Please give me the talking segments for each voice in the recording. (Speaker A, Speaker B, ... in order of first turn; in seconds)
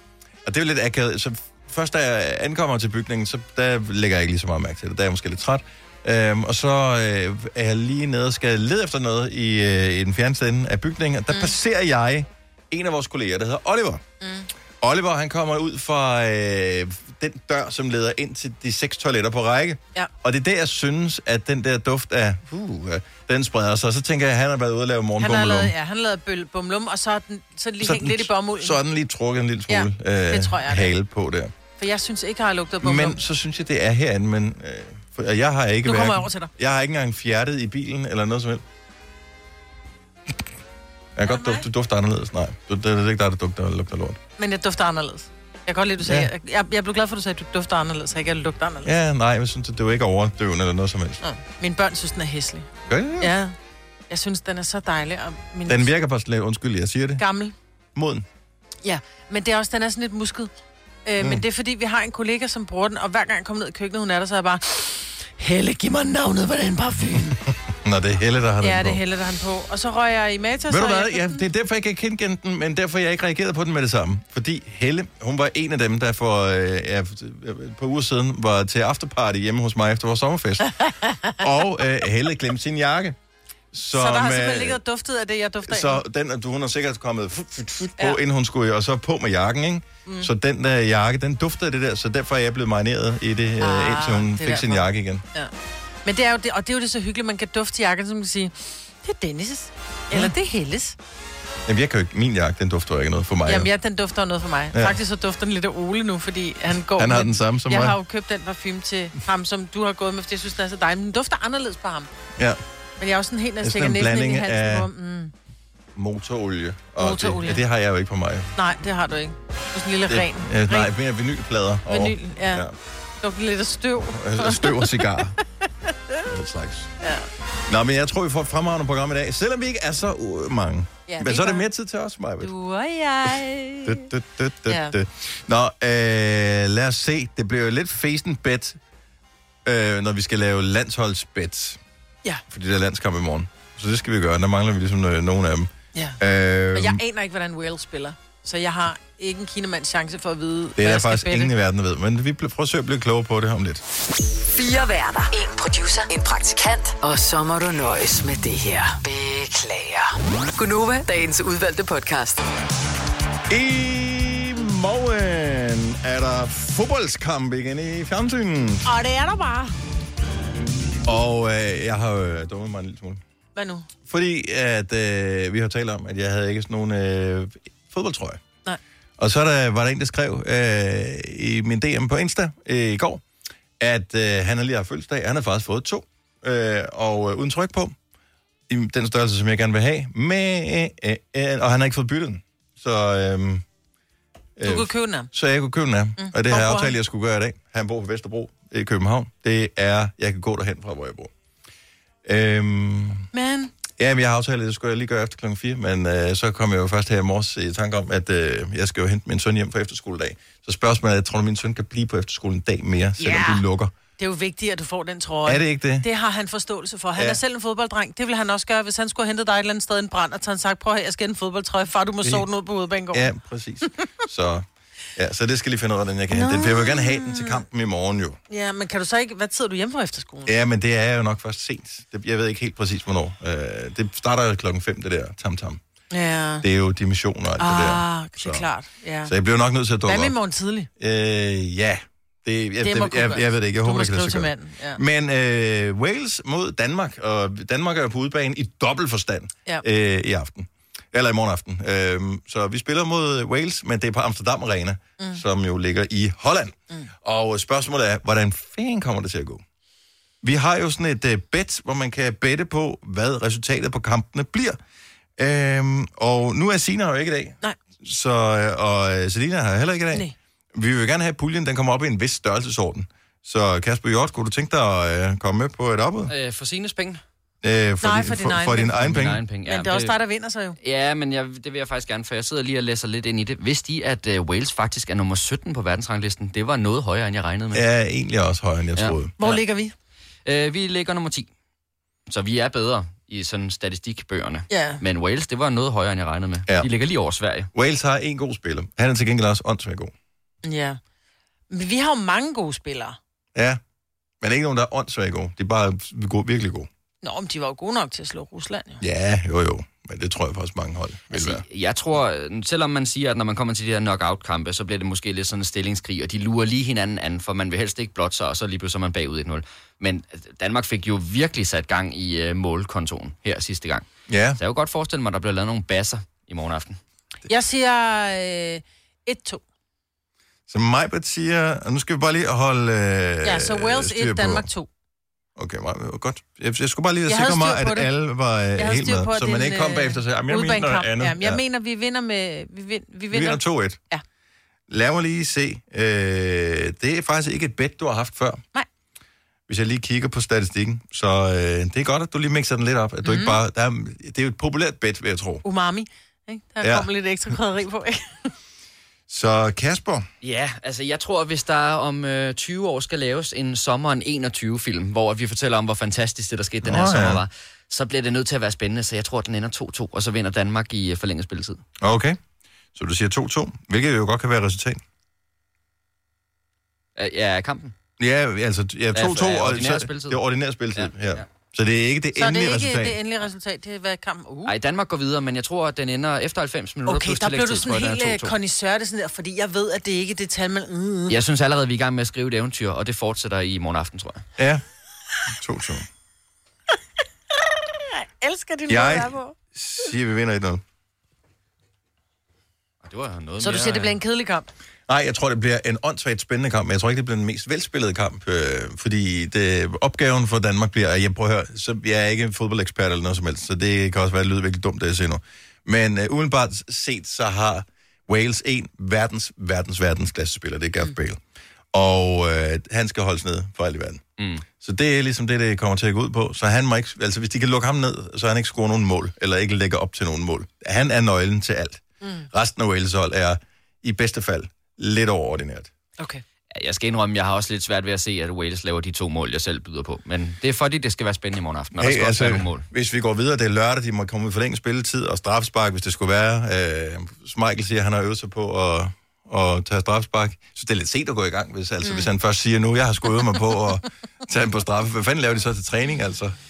Speaker A: 0.4-14.0, 14.8-25.7, 27.8-31.5, 32.8-38.6, 41.1-44.2, 46.0-46.3, 48.8-51.2, 52.9-53.3, 55.6-57.2, 57.9-58.2, 67.7-69.0, 70.7-80.8, 81.3-83.2, 83.7-84.8, 85.7-95.2, 101.7-103.7, 107.0-108.0, 113.6-114.9, 116.0-118.5, 120.1-122.7, 124.1-125.4, 126.2-126.9, 127.7-132.5, 133.8-138.8, 139.6-141.8, 142.5-147.0, 150.8-153.8, 163.5-168.8, 171.0-173.2, 174.1-178.4, 179.2-183.2, 183.8-187.9, 188.7-193.6, 194.6-201.3, 202.2-203.3, 204.0-213.9, 215.4-216.1, 217.2-217.4, 223.1-228.4, 230.4-235.8, 236.6-238.7, 239.2-240.3, 241.0-259.6, 260.4-264.8, 265.4-276.3, 277.6-279.4, 287.7-289.3, 297.7-300.1, 303.5-303.8, 304.4-306.9, 309.0-311.6, 324.3-324.6, 330.7-334.7, 335.6-341.6, 343.3-344.0, 344.9-348.6, 349.7-355.6, 356.8-357.1, 359.3-360.3, 366.8-367.4, 372.0-372.4, 372.9-375.0, 378.2-383.2, 394.6-394.8, 395.5-396.1, 398.9-400.8, 405.1-421.4, 421.9-435.9, 442.0-456.6
Speaker B: 14.2-14.5, 25.2-28.8, 29.7-30.9, 31.8-33.2, 35.8-36.5, 41.2-41.6, 44.4-48.9, 51.2-53.5, 54.1-55.9, 57.2-57.5, 58.8-60.5, 61.0-67.4, 68.6-71.4, 80.8-81.4, 83.9-86.0, 93.6-95.5, 96.0-101.0, 103.5-112.1, 113.0-115.3, 117.0-117.6, 118.5-120.9, 121.9-122.7, 123.2-125.2, 127.0-127.3, 131.1-131.7, 132.4-134.1, 134.7-135.0, 145.9-146.2, 146.7-151.5, 168.8-169.7, 173.6-173.9, 194.6-195.3, 196.2-196.9, 203.3-203.7, 213.2-213.6, 214.2-223.3, 226.3-227.6, 228.5-230.5, 236.1-236.6, 237.6-239.3, 240.1-240.9, 242.8-245.0, 278.0-279.0, 279.6-280.8, 289.4-289.9, 294.7-295.0, 300.6-301.0, 301.7-303.2, 307.2-309.0, 327.5-329.6, 333.4-334.9, 337.3-338.1, 338.8-344.2, 353.2-353.6, 355.6-358.5, 382.4-384.7, 387.1-391.3, 398.1-399.6, 403.6-404.7, 432.2-432.5, 452.0-452.3
Speaker C: 154.5-162.4
Speaker D: 276.3-277.2, 278.9-280.1, 280.8-287.8, 288.9-289.6, 290.4-291.5, 292.3-297.7, 311.3-327.0, 360.4-371.8, 377.2-377.9, 379.1-380.4, 380.9-381.4, 384.6-388.5, 391.3-394.4, 403.0-404.1, 436.7-442.8